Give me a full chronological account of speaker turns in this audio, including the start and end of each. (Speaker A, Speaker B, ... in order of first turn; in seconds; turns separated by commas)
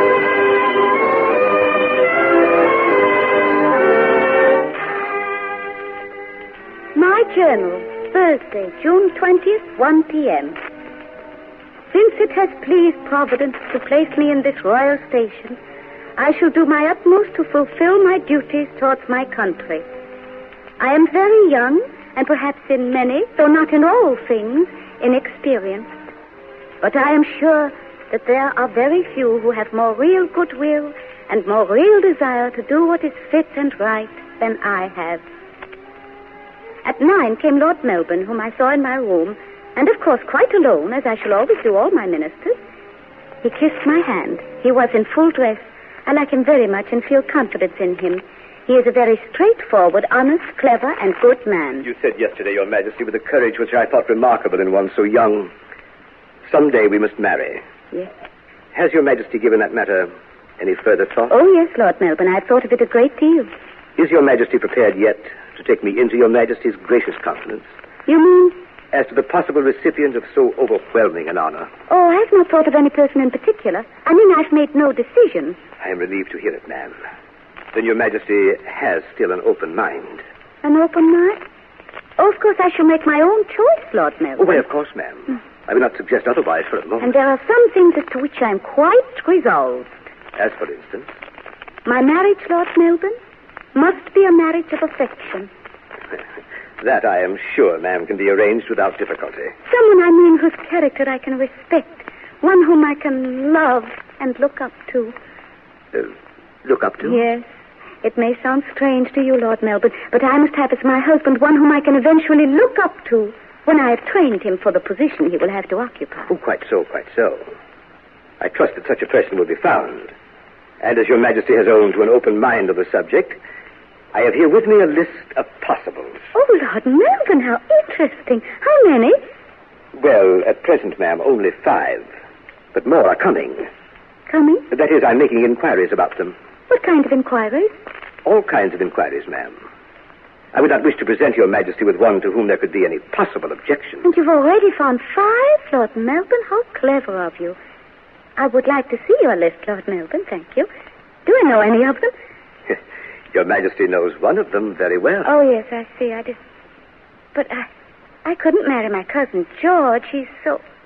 Speaker A: 6.9-10.6, Speaker A: 11.9-15.6, Speaker A: 16.2-19.8, Speaker A: 20.8-25.9, Speaker A: 26.8-35.2, Speaker A: 36.8-42.6, Speaker A: 43.4-51.9, Speaker B: 51.8-55.5, Speaker B: 56.5-57.6, Speaker B: 58.7-61.3, Speaker A: 61.3-63.5, Speaker B: 64.0-67.7, Speaker A: 68.1-68.6, Speaker B: 68.9-71.7, Speaker A: 71.9-75.6, Speaker B: 75.8-76.9, Speaker B: 77.7-80.2, Speaker A: 80.6-81.4, Speaker A: 82.2-84.6, Speaker B: 84.4-87.1, Speaker A: 87.0-90.0, Speaker B: 90.3-91.1, Speaker A: 91.8-93.2, Speaker A: 93.7-95.5, Speaker B: 96.8-99.5, Speaker A: 99.7-105.2, Speaker B: 106.6-107.2, Speaker A: 107.0-107.4, Speaker A: 108.0-116.3, Speaker B: 116.3-117.5, Speaker B: 118.4-120.1, Speaker B: 120.8-123.4, Speaker B: 124.1-126.2, Speaker A: 126.3-129.2, Speaker B: 129.9-132.1, Speaker B: 132.7-133.7, Speaker A: 134.3-134.6, Speaker B: 134.7-136.3, Speaker A: 136.7-137.7, Speaker B: 138.2-139.6, Speaker B: 140.5-144.0, Speaker A: 144.0-147.6, Speaker A: 148.4-150.7, Speaker A: 151.2-152.1, Speaker B: 153.3-155.3, Speaker A: 155.2-156.4, Speaker A: 157.3-157.7, Speaker A: 158.2-160.6